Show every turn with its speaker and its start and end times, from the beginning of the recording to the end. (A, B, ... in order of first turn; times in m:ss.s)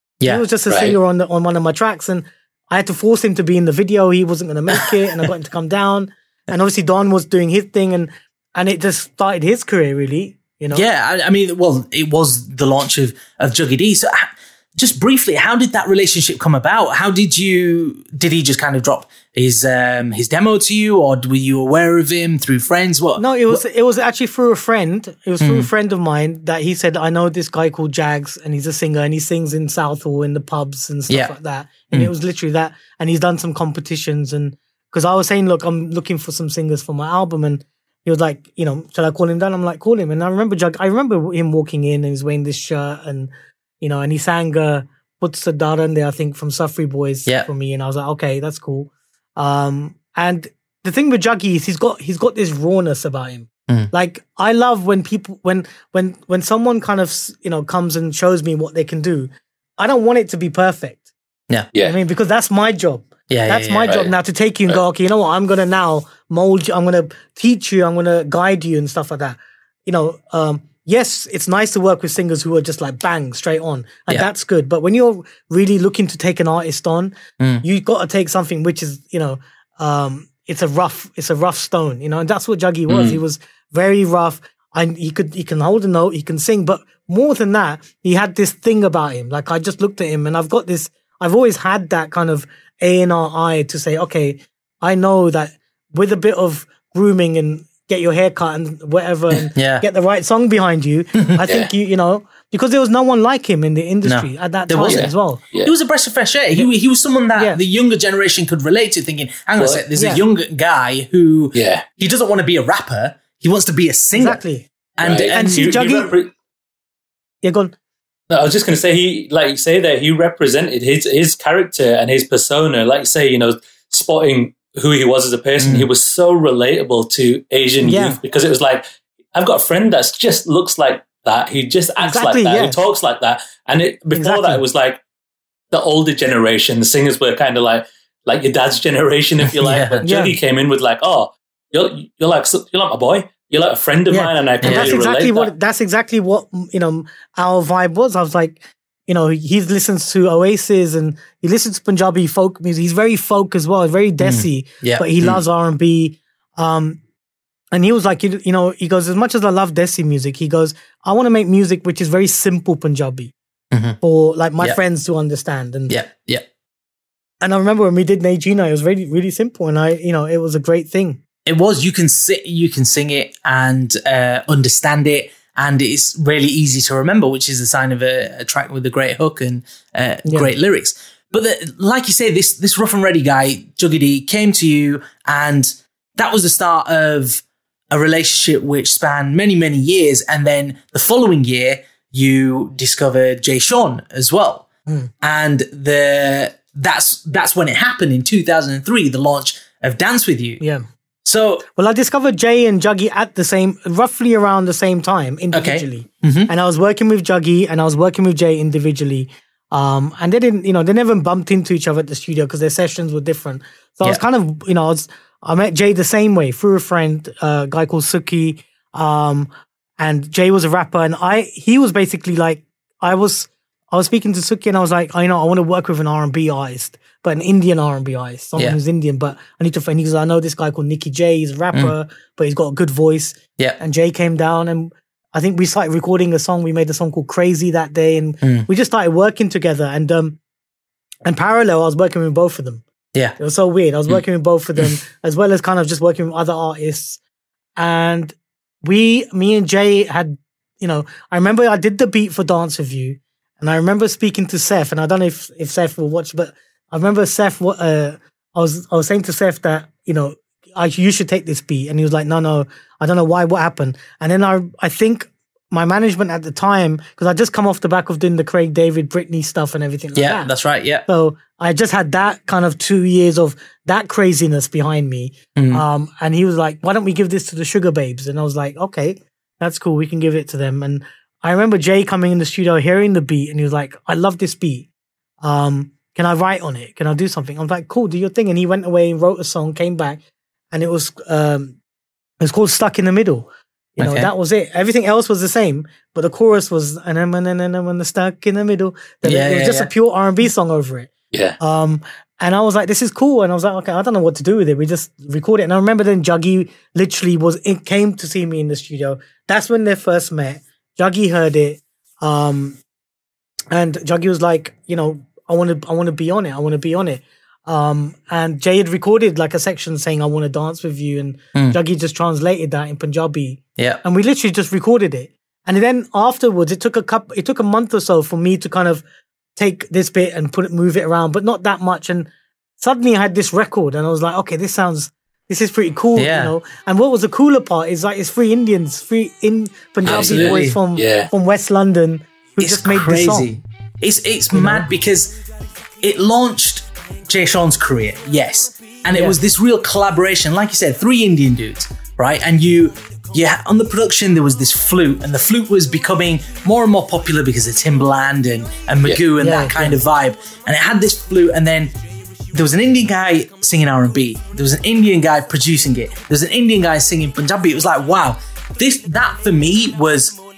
0:00.2-0:10.8 A
0:00.7-0:00.9 B
0:04.7-0:05.3 C
0:10.7-0:23.6 C
0:23.2-1:01.0 A
0:25.4-0:25.7 C
1:01.8-1:45.4 A
1:03.3-1:04.0 C
1:17.4-1:17.6 C
1:22.9-1:23.2 B
1:39.5-1:39.8 C
1:44.0-1:54.4 C
1:44.9-1:45.7 B
1:49.6-1:49.8 B
1:50.0-1:50.2 A
1:51.5-1:51.8 B
1:54.1-1:54.7 A
1:55.0-1:55.4 C
1:55.0-1:56.3 B
1:55.3-1:56.2 A
1:57.4-1:57.7 A
1:58.3-2:15.0 B
2:05.6-2:05.9 C
2:07.8-2:08.2 A
2:12.0-2:12.8 A
2:14.2-2:14.6 A
2:15.7-2:25.5 B
2:19.4-2:20.0 C
2:19.7-2:20.4 A
2:24.1-2:37.0 A
2:24.6-2:24.9 C
2:34.2-2:35.4 C
2:37.7-2:43.3 A
2:43.7-2:44.0 C
2:44.0-2:46.0 A
2:45.9-2:46.4 C
2:47.4-2:51.2 A
2:51.4-3:14.7 C
3:00.2-3:00.5 A
3:15.2-3:20.6 C
3:20.6-3:20.8 A
3:21.2-3:21.6 C
3:21.7-4:00.4 A
3:25.5-3:26.5 C
3:58.4-3:58.7 C
4:01.2-4:02.8 A
4:03.4-4:07.2 A
4:07.8-4:30.5 A
4:30.1-4:31.0 C
4:31.1-4:44.9 A
4:35.6-4:35.8 C
4:45.4-4:50.2 A
4:50.7-4:51.7 A
4:52.4-5:12.8 A
4:54.0-4:54.3 C
4:59.2-4:59.9 C
5:01.3-5:01.6 B
5:13.7-5:29.0 A
5:23.8-5:24.0 C
5:29.6-5:43.5 A
5:36.1-5:36.5 C
5:40.0-5:40.8 C
5:40.0-5:41.3 B
5:42.6-5:45.4 C
5:44.5-5:44.9 A
5:46.0-6:01.9 C
5:49.1-5:49.4 A
5:59.4-6:00.0 A
6:02.5-6:10.4 C